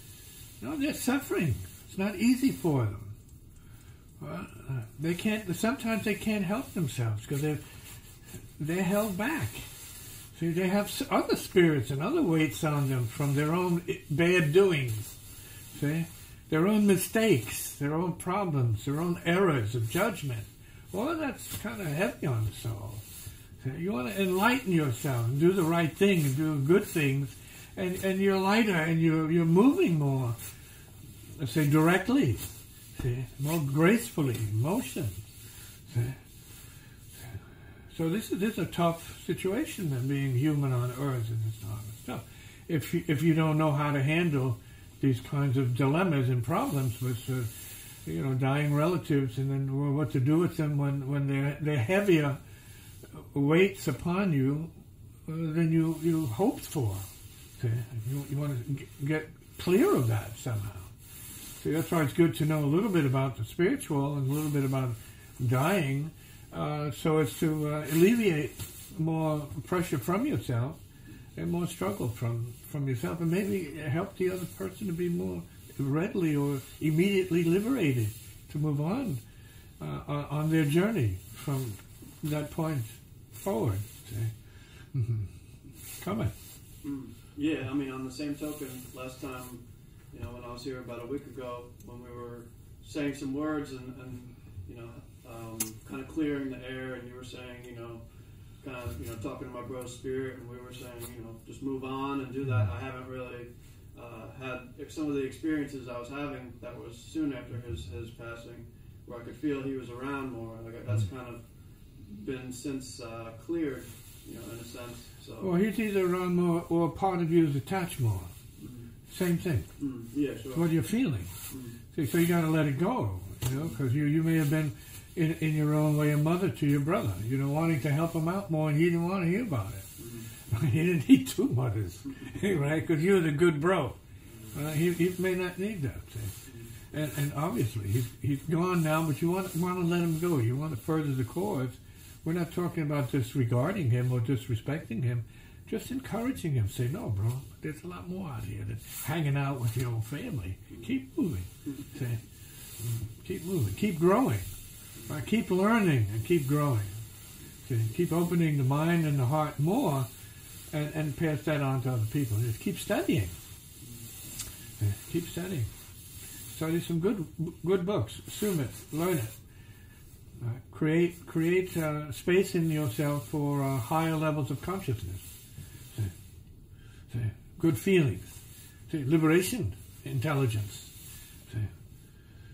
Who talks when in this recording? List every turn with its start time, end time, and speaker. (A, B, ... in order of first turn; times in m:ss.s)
0:00.6-0:03.1 A
0:04.2-0:07.6 A
0:08.6-0:09.7 A
0:10.3-0:15.1 A
0:15.7-0:23.0 A
0:23.6-0:30.4 A
0:31.4-0:35.2 A
0:35.9-0:36.2 A
0:37.2-0:52.4 A
0:53.1-0:54.7 A
0:55.2-0:57.0 A
0:57.6-1:00.9 A
1:01.6-1:10.8 A
1:11.4-1:19.2 A
1:19.8-1:25.3 A
1:26.0-1:26.3 A
1:26.8-1:38.0 B
1:38.6-1:51.4 B
1:52.0-1:55.5 B
1:55.4-1:58.3 A
1:58.6-1:58.9 B
1:59.1-1:59.7 A
1:59.8-2:00.6 B
2:00.5-2:01.3 A
2:01.5-2:01.8 B
2:01.9-2:09.9 A
2:10.0-2:10.3 B
2:10.4-2:14.0 A
2:14.5-2:16.3 A
2:16.9-2:32.2 A
2:32.8-2:34.5 A
2:35.0-2:36.9 A
2:37.6-2:40.1 A
2:40.7-2:43.3 A
2:44.8-2:45.7 A
2:46.5-2:49.4 A
2:50.4-2:55.3 A
2:57.1-2:58.4 A
2:58.9-3:00.9 A
3:01.5-3:01.7 A